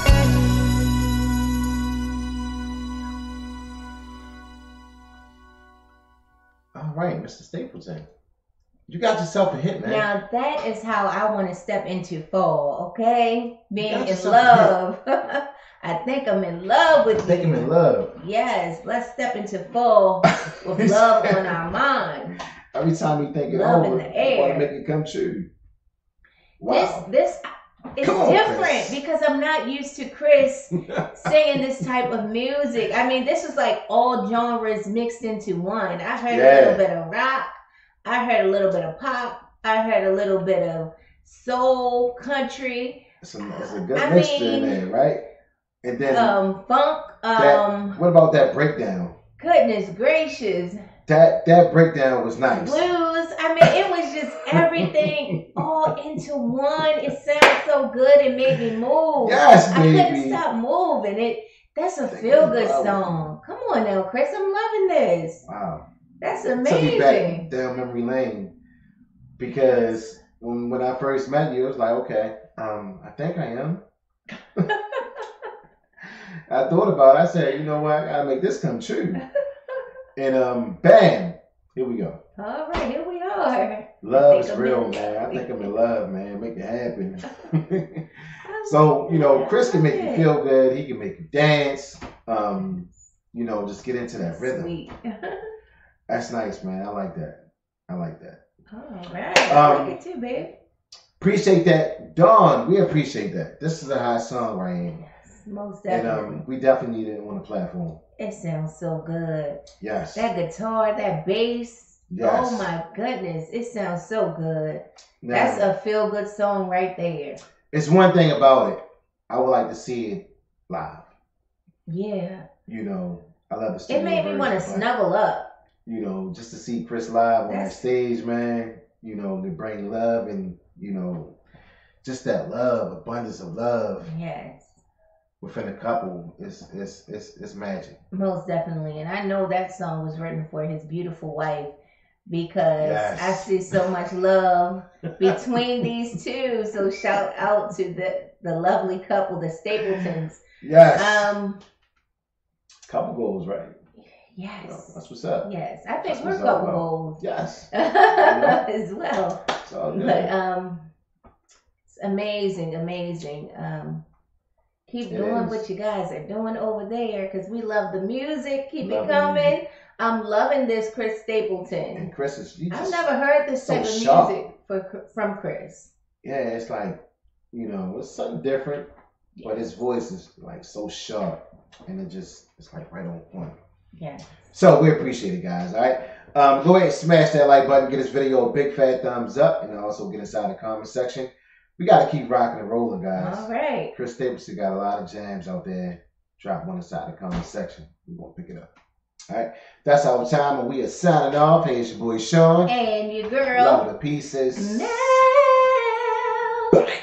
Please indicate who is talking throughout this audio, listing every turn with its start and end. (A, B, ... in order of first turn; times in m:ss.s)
0:06.7-0:08.1 A
0:08.9-0:10.1 A
0:09.8-0:22.4 B
0:13.8-0:14.7 A
0:17.2-0:18.1 A
0:20.3-0:21.6 A
0:22.7-0:25.5 A
0:23.5-0:24.7 B
0:26.6-0:27.0 A
0:26.7-0:37.5 B
0:28.0-0:29.0 A
0:36.3-0:36.8 A
0:38.0-0:43.0 B
0:43.2-0:45.2 A
0:43.9-0:44.8 B
0:45.8-0:46.4 A
0:46.0-0:48.0 B
0:47.4-0:49.2 A
0:49.4-0:50.8 B
0:51.1-0:52.9 A
0:52.5-1:05.4 B
0:59.2-1:00.4 A
1:02.1-1:03.3 A
1:05.5-1:05.8 A
1:06.2-1:07.5 B
1:06.6-1:08.5 A
1:09.4-1:13.8 A
1:16.5-1:19.2 A
1:20.2-1:22.2 A
1:22.4-1:25.7 B
1:24.0-1:28.1 A
1:28.4-1:30.3 B
1:28.6-1:34.7 A
1:34.3-1:35.5 B
1:36.1-1:38.4 A
1:38.7-1:40.6 B
1:39.5-1:40.0 A
1:41.2-1:45.0 A
1:45.0-1:46.4 B
1:45.9-1:48.0 A
1:48.2-1:49.6 B
1:49.8-1:50.3 A
1:50.2-1:57.4 B
1:52.1-1:52.7 A
1:55.2-1:55.7 A
1:57.7-2:01.1 A
2:01.9-2:02.5 B
2:02.7-2:04.9 A
2:03.9-2:05.5 B
2:05.9-2:11.4 A
2:07.5-2:07.9 B
2:12.0-2:14.1 A
2:14.0-2:14.8 B
2:15.4-2:18.0 A
2:18.1-2:21.7 B
2:22.3-2:31.6 B
2:22.8-2:23.5 A
2:30.6-2:31.4 A
2:32.9-2:33.8 A
2:34.0-2:37.2 B
2:34.6-2:35.5 A
2:36.0-2:38.6 A
2:37.7-2:40.9 B
2:39.6-2:40.3 A
2:41.9-2:44.0 B
2:44.9-2:52.1 B
2:45.1-2:45.6 A
2:48.8-2:49.6 A
2:52.0-2:53.0 A
2:52.7-2:55.9 B
2:53.6-2:54.4 A
2:56.2-2:57.0 A
2:57.5-2:58.9 A
2:59.4-3:03.6 A
3:04.0-3:04.3 B
3:04.5-3:18.7 A
3:13.1-3:13.9 B
3:19.3-3:22.7 A
3:22.7-3:23.9 B
3:23.5-3:25.3 A
3:24.6-3:26.6 B